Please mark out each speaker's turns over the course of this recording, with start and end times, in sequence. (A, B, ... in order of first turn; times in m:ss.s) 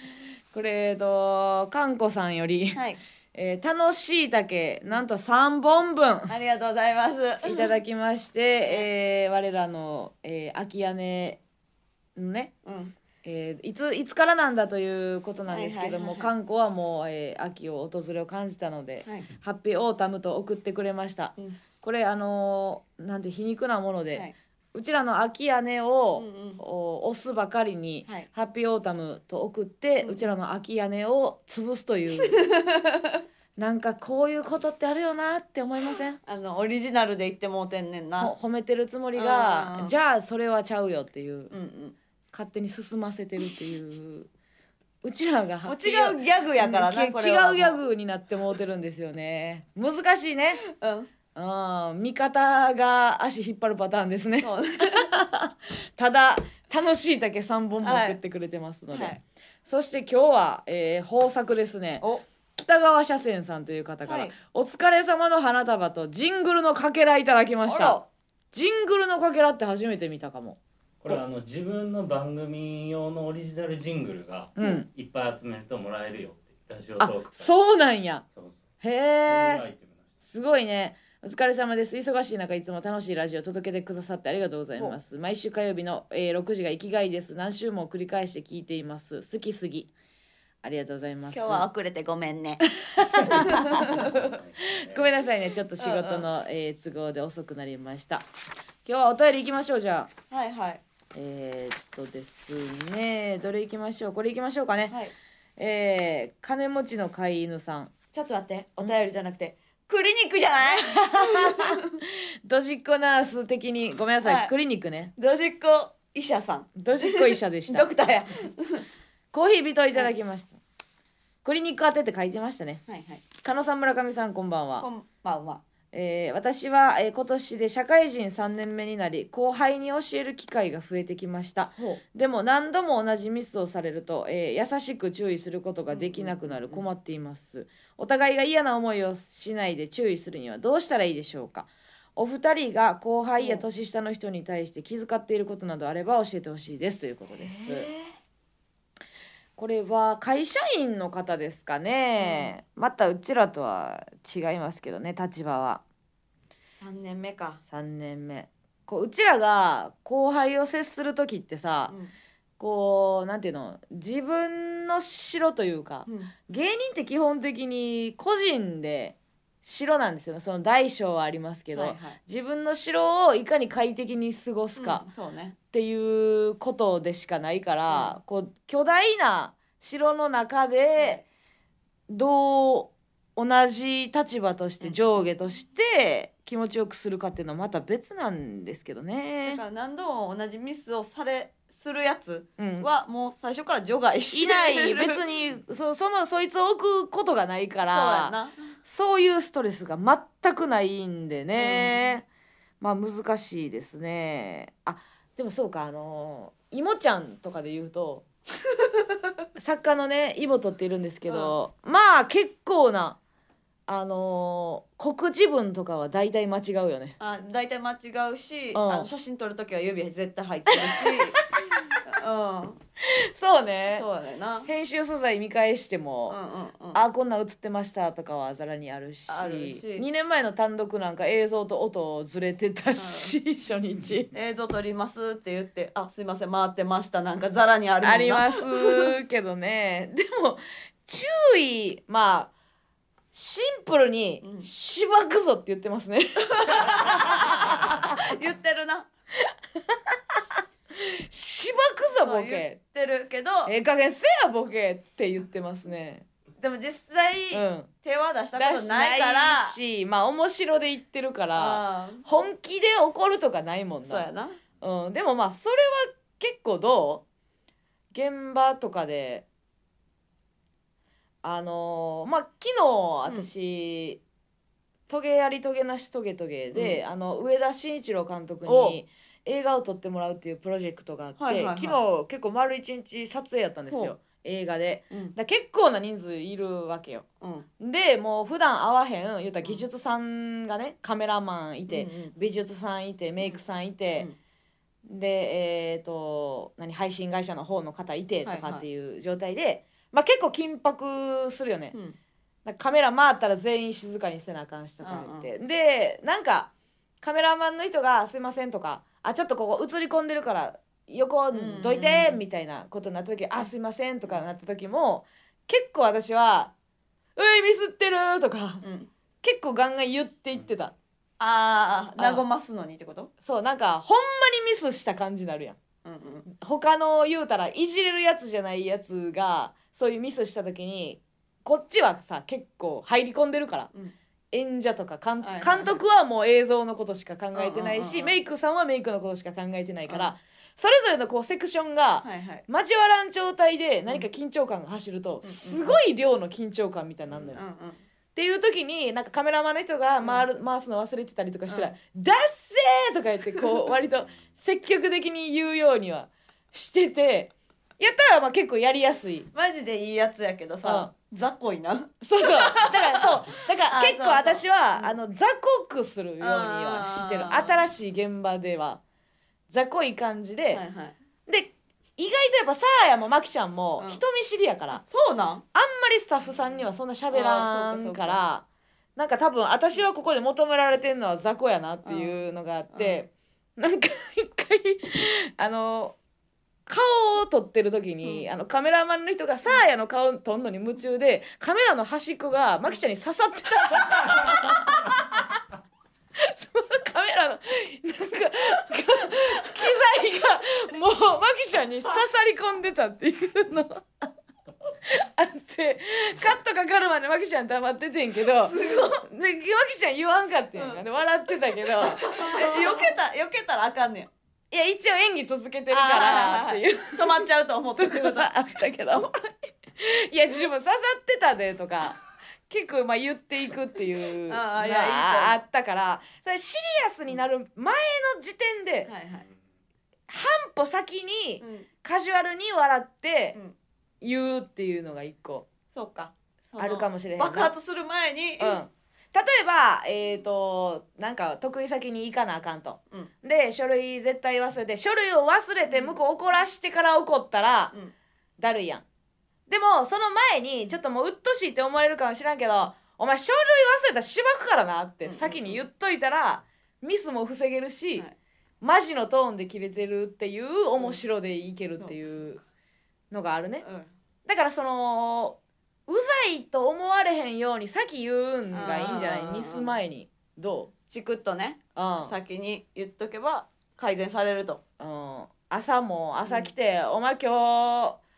0:00.5-0:02.8 A
0:03.3-0:06.3 A
0:06.3-0:07.8 B
0:07.4-0:11.4 A
0:12.2-0:12.5 A
0:12.6-0:13.0 B
0:13.2-0:32.5 A
0:15.5-0:16.3 B
0:26.2-0:26.6 B
0:30.0-0:30.3 B
0:32.2-0:33.2 B
0:33.6-0:36.2 A
0:36.2-0:38.4 B
0:38.2-0:41.5 A
0:39.2-0:40.0 B
0:41.5-0:42.0 B
0:42.3-0:44.3 A
0:45.0-0:50.6 A
0:45.7-0:47.8 B
0:50.6-0:51.1 B
0:51.4-1:08.0 A
0:54.4-0:55.1 B
0:57.8-0:58.2 B
0:58.9-0:59.2 B
1:04.1-1:04.4 B
1:07.6-1:08.1 B
1:08.5-1:11.2 A
1:11.0-1:17.5 C
1:14.6-1:14.9 A
1:17.0-1:18.2 A
1:18.3-1:18.6 C
1:18.8-1:19.6 A
1:19.2-1:20.1 C
1:20.2-1:29.9 A
1:30.6-1:31.6 A
1:31.3-1:32.6 B
1:32.8-1:34.1 A
1:33.2-1:34.1 B
1:33.8-1:35.2 C
1:34.9-1:38.3 A
1:35.8-1:36.3 B
1:38.8-1:40.1 A
1:40.3-1:40.8 B
1:41.1-1:45.0 A
1:45.6-1:49.6 A
1:49.9-1:51.8 B
1:50.6-1:55.1 A
1:54.2-1:54.5 B
1:55.2-1:58.8 B
1:56.8-1:57.9 A
1:59.3-2:00.6 A
2:01.4-2:02.8 A
2:02.9-2:03.3 B
2:03.4-2:04.9 A
2:04.8-2:05.6 B
2:05.9-2:27.9 A
2:15.9-2:16.9 B
2:23.4-2:23.7 B
2:27.4-2:28.1 B
2:29.6-2:35.8 A
2:32.2-2:32.6 B
2:36.8-2:37.6 B
2:37.7-2:42.0 A
2:41.9-2:42.1 B
2:42.6-2:55.0 A
2:46.1-2:46.3 B
2:51.8-2:52.2 B
2:54.8-2:55.6 B
2:55.7-3:01.2 A
2:57.9-2:58.2 B
3:02.1-3:09.6 A
3:04.8-3:05.3 B
3:09.4-3:15.2 B
3:12.6-3:12.9 A
3:14.3-3:22.3 A
3:17.9-3:18.8 B
3:21.6-3:22.0 B
3:22.8-3:28.3 A
3:28.8-3:29.2 B
3:29.6-3:33.2 A
3:31.3-3:31.5 B
3:33.9-3:37.2 A
3:37.2-3:42.8 B
3:38.7-3:39.1 A
3:40.8-3:41.6 A
3:43.2-3:44.1 A
3:43.9-3:44.7 B
3:44.6-3:46.4 A
3:46.3-3:47.0 B
3:46.9-3:54.3 A
3:49.3-3:50.1 B
3:53.0-3:53.3 B
3:54.3-3:59.2 B
3:58.0-4:02.5 A
4:03.3-4:08.1 A
4:04.4-4:04.7 B
4:06.6-4:09.1 B
4:09.5-4:10.4 A
4:11.0-4:12.8 A
4:12.2-4:13.7 B
4:13.7-4:16.3 A
4:16.6-4:19.8 B
4:17.5-4:17.9 A
4:18.5-4:24.3 A
4:21.5-4:22.2 B
4:24.0-4:24.6 B
4:24.8-4:27.2 A
4:28.1-4:29.5 A
4:31.4-4:34.2 A
4:35.1-4:47.3 A
4:36.7-4:37.0 B
4:38.6-4:39.0 B
4:41.4-4:42.0 B
4:43.9-4:44.2 B
4:47.4-4:47.7 B
4:47.8-4:54.3 A
4:51.9-4:52.4 B
4:55.1-5:02.0 A
4:58.4-4:58.8 B
5:02.6-5:16.7 A
5:05.0-5:05.5 B
5:11.5-5:12.4 B
5:17.4-5:18.8 A
5:18.8-5:19.1 B
5:19.4-5:21.0 A
5:21.4-5:23.3 B
5:22.2-5:22.4 A
5:23.4-5:25.8 A
5:26.0-5:26.5 B
5:26.5-5:33.9 A
5:34.5-5:47.6 A
5:35.4-5:36.0 B
5:37.6-5:38.4 B
5:40.1-5:40.3 B
5:42.2-5:42.6 B
5:45.4-5:46.0 B
5:47.3-5:47.6 C
5:47.6-5:48.0 B
5:48.4-5:59.5 A
5:50.2-5:50.5 B
5:51.7-5:51.9 B
5:59.5-6:03.3 B
6:00.8-6:01.1 A
6:02.2-6:09.0 A
6:03.9-6:05.2 B
6:06.4-6:07.8 B
6:09.7-6:10.8 A
6:10.7-6:11.2 B
6:11.5-6:15.0 A
6:14.9-6:15.6 B
6:15.7-6:18.6 A
6:17.3-6:18.4 B
6:19.2-6:26.2 A
6:22.0-6:23.2 B
6:26.9-6:35.4 A
6:28.2-6:28.5 B
6:36.4-6:44.1 A
6:45.1-6:52.6 A
6:48.6-6:49.2 B
6:50.8-6:51.0 B
6:51.8-6:54.3 B
6:54.7-6:57.4 A
6:55.9-6:59.3 B
6:58.0-6:59.3 A
7:00.0-7:09.1 A
7:04.5-7:05.6 B
7:09.1-7:09.4 B
7:10.3-7:13.6 A
7:11.6-7:11.9 B
7:14.2-7:15.7 A
7:15.9-7:18.8 B
7:16.8-7:17.7 A
7:18.6-7:27.9 A
7:25.9-7:26.2 B
7:28.6-7:29.0 A
7:29.7-7:38.3 A
7:35.2-7:35.9 B
7:38.8-7:42.6 A
7:42.0-7:42.2 B
7:43.3-7:43.8 A
7:43.8-7:44.1 B
7:44.4-7:50.9 A
7:48.7-7:50.0 B
7:51.1-7:54.8 B
7:52.0-7:52.3 A
7:55.0-7:58.2 A
7:56.4-7:56.7 B